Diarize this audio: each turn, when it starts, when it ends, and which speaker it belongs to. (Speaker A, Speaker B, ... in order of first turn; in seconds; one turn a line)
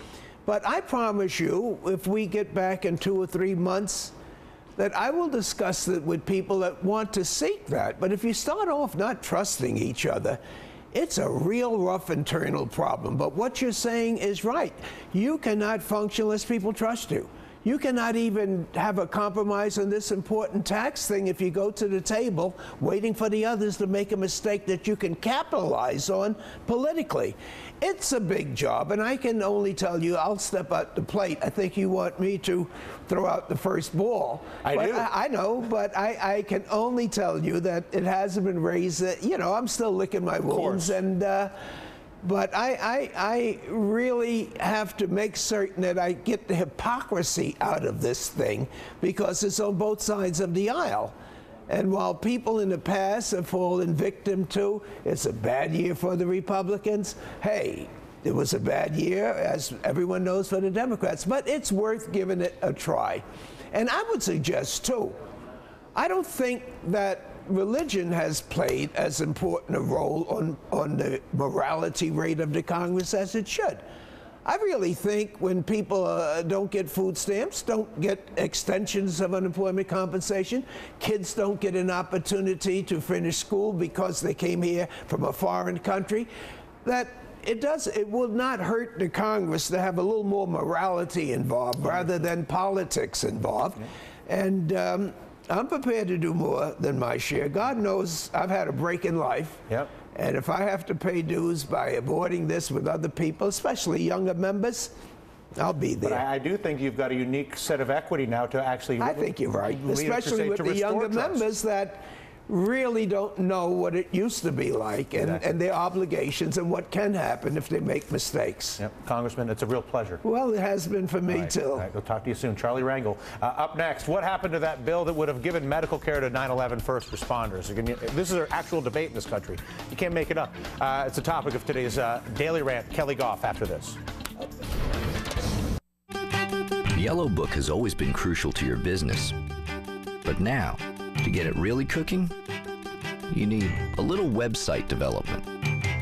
Speaker A: 0.5-4.1
Speaker A: 4.8-10.4
Speaker A: 10.9-41.5
Speaker B: 34.6-35.1
Speaker B: 40.5-41.0
Speaker A: 42.2-51.1
Speaker A: 51.7-65.2
Speaker A: 66.0-73.8
Speaker A: 74.5-86.3
Speaker A: 86.8-99.6
Speaker A: 100.1-104.9
Speaker A: 105.6-106.2
Speaker B: 106.0-111.5
Speaker A: 109.0-118.8
Speaker B: 115.2-115.4
Speaker B: 118.8-120.2
Speaker A: 120.2-121.9
Speaker B: 121.3-134.0
Speaker C: 136.9-139.4
Speaker C: 140.2-142.3
Speaker C: 143.3-145.4